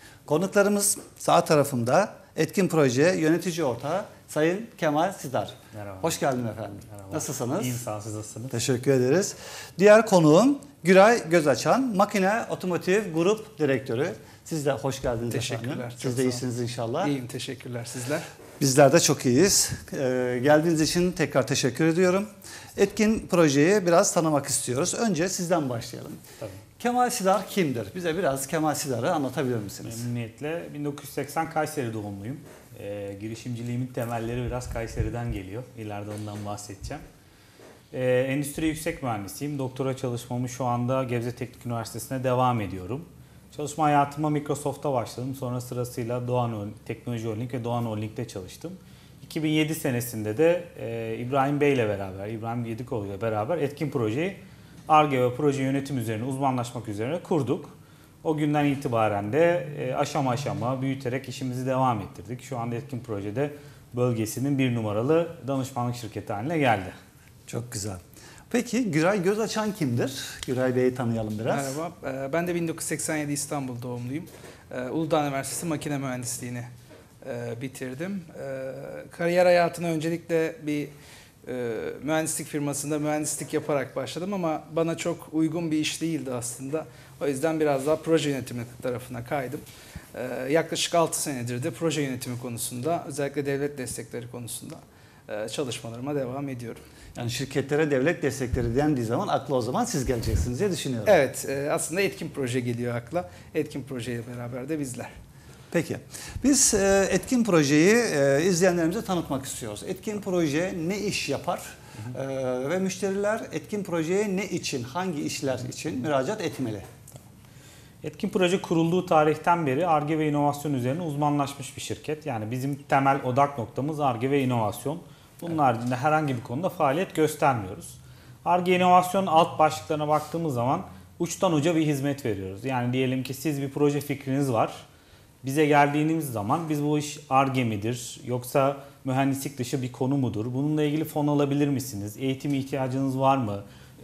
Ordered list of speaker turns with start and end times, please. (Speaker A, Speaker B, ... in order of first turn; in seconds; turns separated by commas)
Speaker A: 0.2-7.8, Speaker B: 5.7-6.2, Speaker B: 6.9-8.6, Speaker A: 8.5-17.1, Speaker C: 15.3-16.4, Speaker C: 17.0-18.2, Speaker A: 18.6-26.2, Speaker A: 26.8-30.0, Speaker B: 29.8-37.0, Speaker B: 37.9-57.7, Speaker B: 58.2-66.9, Speaker A: 67.5-71.8, Speaker C: 71.5-76.7, Speaker C: 77.2-80.9, Speaker C: 81.4-89.6, Speaker C: 90.1-96.8, Speaker A: 97.2-101.2, Speaker C: 101.1-105.1, Speaker A: 105.7-116.8, Speaker B: 118.0-134.8, Speaker B: 135.4-143.6